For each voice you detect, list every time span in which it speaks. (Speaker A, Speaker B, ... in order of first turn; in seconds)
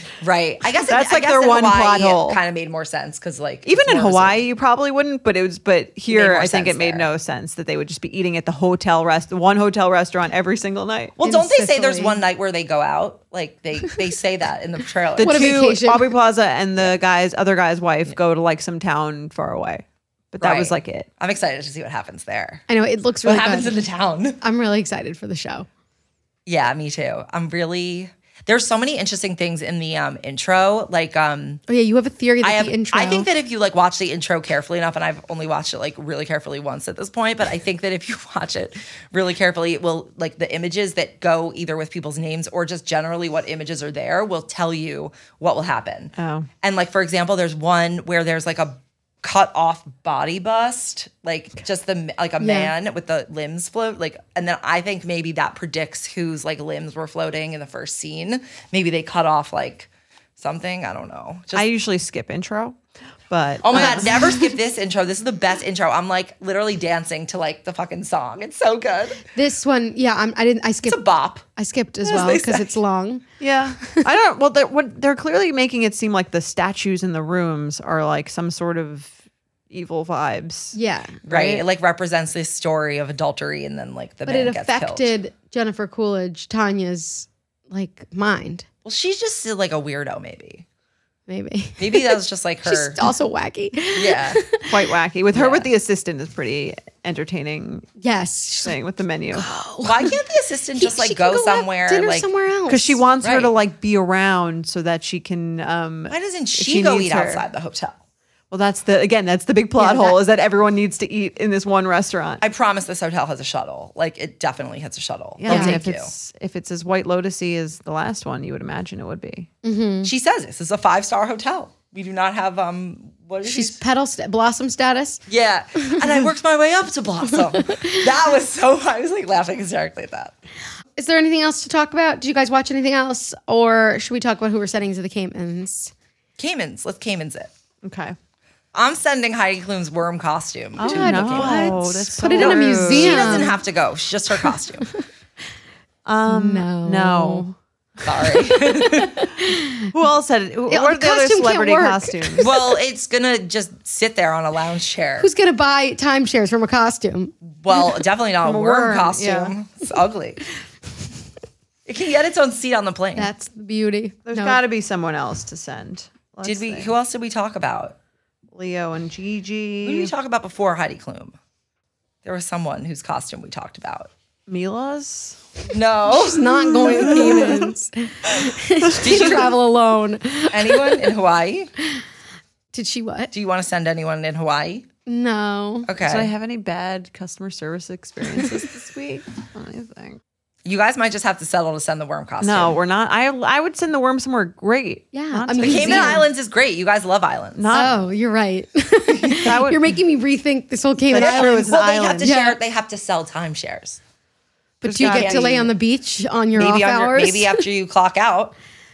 Speaker A: 0.2-4.4, 6.1-7.1, 11.2-15.6, 20.4-22.6, 23.2-24.4, 26.5-31.6, 32.4-61.7, 63.6-69.2, 70.9-71.5, 72.0-72.7, 81.3-85.1, 88.8-90.6, 91.8-93.0, 93.9-94.4, 95.3-95.7, 99.8-102.3, 103.2-103.5, 106.1-108.0, 112.4-116.1, 120.0-123.8, 125.3-130.3, 136.4-137.5, 138.7-144.9, 148.1-149.2, 152.4-155.3, 157.6-160.4, 161.9-163.3, 166.4-168.0, 169.8-171.4, 172.2-174.1, 175.7-177.6, 179.0-179.6, 180.5-181.7, 183.3-184.9, 185.9-186.3, 190.7-192.8, 195.6-197.7, 201.2-204.0, 205.0-205.7, 206.6-208.6
Speaker B: 0.8-2.4, 3.6-11.2, 15.2-21.1, 46.2-46.5, 61.5-64.5, 73.4-79.2, 79.7-80.8, 94.7-97.9, 98.6-99.5, 102.7-107.4, 108.5-112.4, 115.4-119.5, 137.8-138.2, 140.8-143.5, 146.1-147.5, 149.9-152.5, 159.2-159.5, 164.3-166.9, 168.5-170.1, 174.5-175.4, 176.9-177.6, 186.0-190.2, 192.4-196.2, 197.6-198.0, 199.4-199.9, 201.1-202.3, 204.8-205.7
Speaker C: 11.2-12.2, 15.2-16.1, 22.7-23.8, 24.4-25.7, 31.7-33.3, 52.4-52.7, 69.3-71.0, 71.5-73.2, 80.7-81.7, 84.3-88.7, 91.3-94.7, 98.0-98.8, 99.3-100.1, 100.8-103.0, 109.8-110.2, 115.5-115.8, 119.6-120.1, 123.4-125.2, 127.5-128.0, 131.0-135.9, 140.8-143.6, 146.3-147.5, 148.0-149.9, 150.7-152.7, 155.2-159.4, 163.2-164.6, 176.1-181.1, 182.7-183.3, 185.1-185.9, 195.1-196.3, 197.7-201.6, 202.2-202.6, 204.8-207.6